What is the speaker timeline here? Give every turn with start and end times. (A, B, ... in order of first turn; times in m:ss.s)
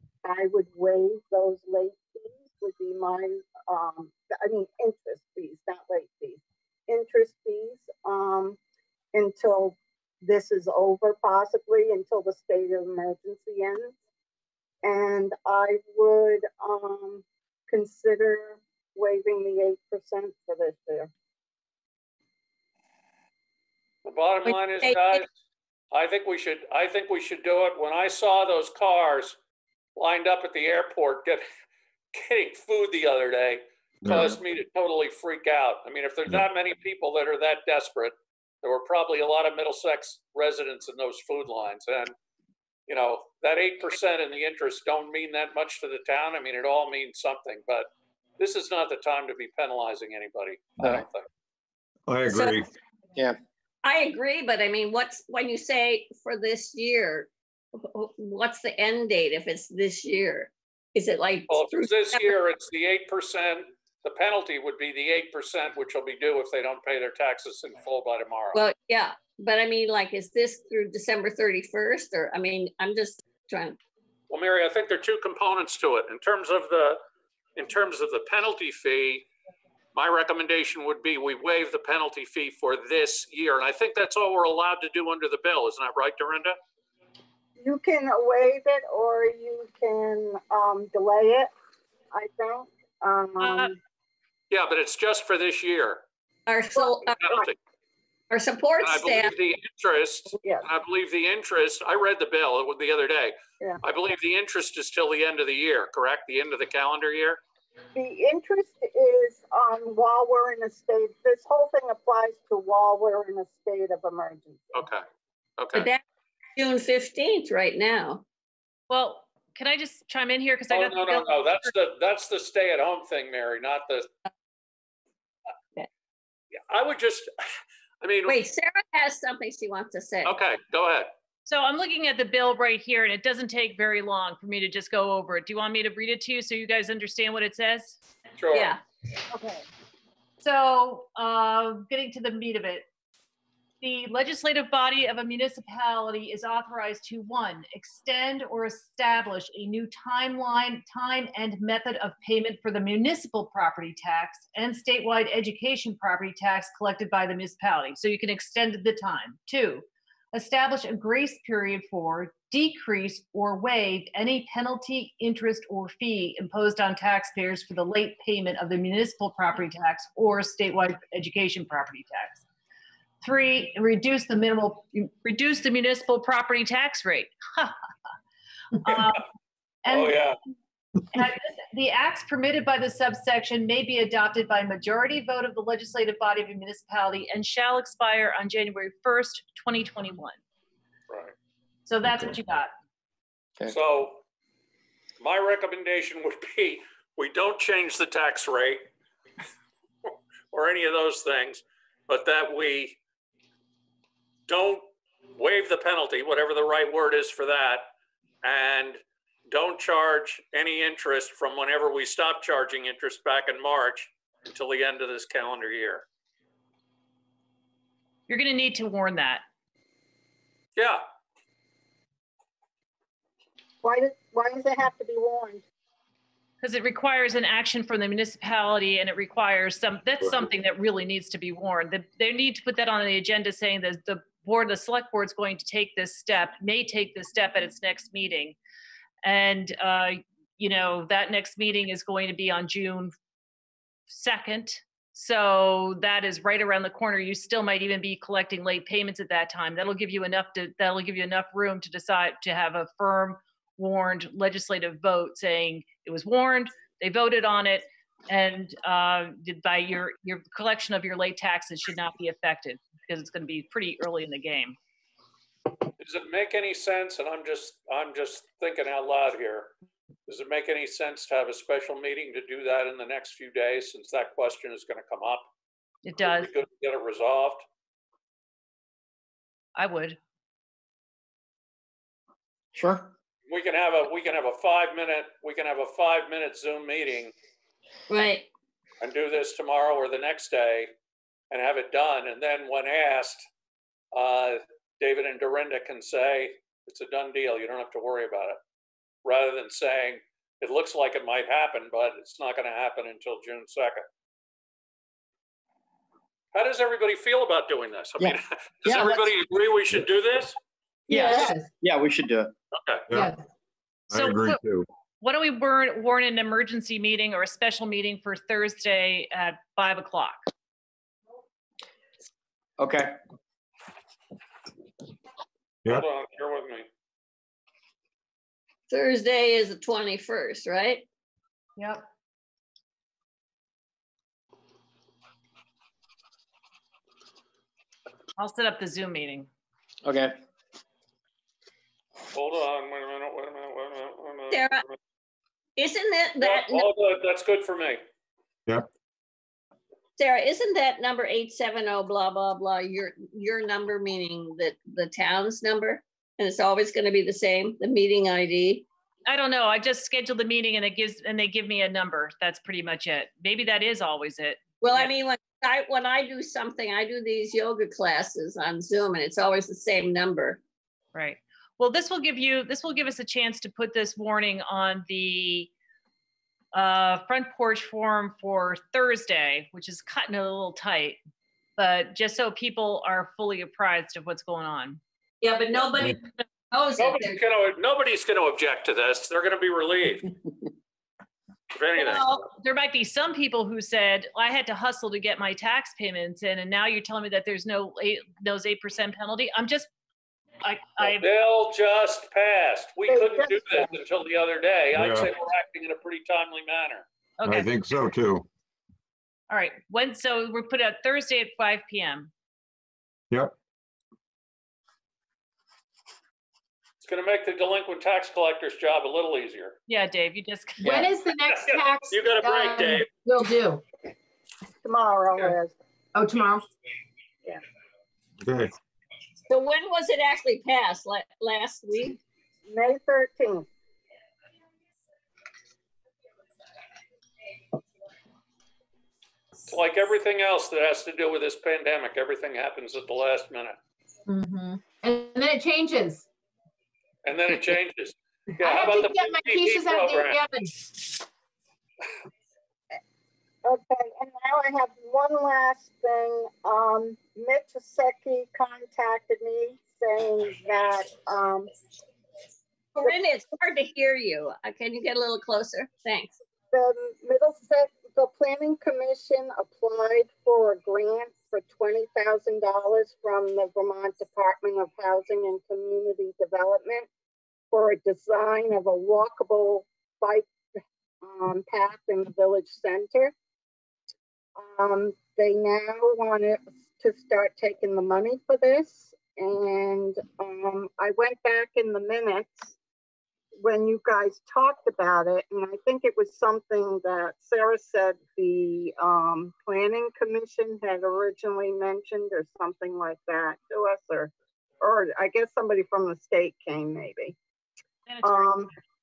0:00.2-0:08.6 A
0:09.1-0:14.0 A
0:14.8-0:21.1 A
0:24.0-0:25.2 B
0:24.4-0:25.2 C
0:25.9-0:29.4 B
0:30.0-0:31.4 B
0:32.1-0:42.1 B
0:34.0-0:34.4 D
0:42.9-0:51.3 B
0:52.1-0:52.7 D
0:53.8-1:02.4 C
1:01.5-1:08.6 B
1:08.5-1:13.8 C
1:14.3-1:17.0 B
1:17.6-1:19.2 B
1:19.9-1:26.6 B
1:27.6-1:31.5 A
1:32.1-1:33.8 A
1:33.4-1:33.7 E
1:34.5-1:36.0 B
1:36.5-1:37.4 C
1:36.7-1:37.4 A
1:37.1-1:37.6 B
1:38.3-1:39.3 C
1:38.8-1:47.4 B
1:47.9-1:54.6 A
1:54.7-1:55.0 B
1:55.6-1:55.9 B
1:55.7-1:56.0 C
1:56.6-1:58.2 C
1:58.9-2:01.7 E
2:00.7-2:04.1 B
2:06.7-2:07.3 B
2:08.0-2:08.4 B
2:08.2-2:10.4 C
2:10.2-2:11.1 B
2:11.4-2:18.0 E
2:18.4-2:18.7 B
2:18.5-2:18.8 C
2:19.3-2:19.6 E
2:20.4-2:22.9 E
2:23.8-2:52.4 E
2:53.2-2:57.7 E
2:58.8-2:59.2 E
2:59.8-3:00.2 E
2:59.9-3:00.4 B
3:01.1-3:10.4 E
3:11.9-3:12.7 E
3:13.7-3:14.2 B
3:15.2-3:18.8 B
3:20.0-3:23.0 B
3:24.5-3:24.8 B
3:25.4-3:27.9 B
3:28.4-3:36.0 B
3:38.3-3:39.4 E
3:40.8-3:41.0 B
3:43.8-3:45.6 A
3:46.6-3:58.6 E
3:59.2-4:03.1 E
4:04.1-4:24.8 E
4:26.0-4:29.7 B
4:30.3-4:35.4 B
4:36.0-4:36.5 E
4:36.2-4:37.6 B
4:39.8-4:40.2 E
4:42.7-4:43.1 F
4:43.5-4:47.3 B
4:48.1-4:48.5 C
4:49.0-4:50.9 B
4:51.5-4:53.4 B
4:54.1-4:58.6 B
4:59.2-5:04.0 B
5:06.5-5:10.6 B
5:08.2-5:09.3 F
5:11.1-5:11.7 G
5:11.1-5:12.5 F
5:11.1-5:11.4 C
5:12.7-5:13.1 B
5:13.1-5:13.4 G
5:14.1-5:14.9 D
5:14.1-5:14.6 E
5:15.2-5:20.5 E
5:22.8-5:23.1 F
5:25.9-5:26.9 B
5:28.9-5:31.0 C
5:31.8-5:32.0 E
5:38.4-5:39.5 E
5:40.0-5:40.3 F
5:42.3-5:44.9 B
5:44.5-5:44.8 C
5:45.8-5:46.9 C
5:46.4-5:48.0 B
5:50.2-5:58.9 C
5:59.2-6:05.0 E
6:04.8-6:10.6 C
6:11.1-6:15.7 E
6:16.7-6:21.2 E
6:21.8-6:25.0 E
6:25.4-6:27.4 C
6:27.0-6:30.3 B
6:31.7-6:32.3 B
6:32.0-6:39.9 E
6:40.6-6:41.3 E
6:41.1-6:47.0 B
6:43.1-6:43.9 A
6:44.9-6:45.3 D
6:47.4-6:47.7 E
6:47.4-6:48.5 D
6:49.5-6:52.3 E
6:57.0-6:59.8 B
6:59.9-7:00.9 E
7:00.8-7:03.8 G
7:01.5-7:03.1 B
7:04.8-7:05.7 A
7:06.1-7:06.6 G
7:08.4-7:08.7 D
7:09.5-7:12.2 C
7:12.7-7:13.7 A
7:19.7-7:23.8 B
7:24.3-7:26.3 G
7:27.2-7:30.4 B
7:28.6-7:30.7 G
7:33.6-7:41.7 A
7:42.9-7:46.4 C
7:46.7-7:57.1 A
7:57.7-8:00.5 A
8:01.2-8:03.3 A
8:04.6-8:12.8 A
8:13.6-8:27.4 A
8:28.1-8:28.6 E
8:28.2-8:28.7 A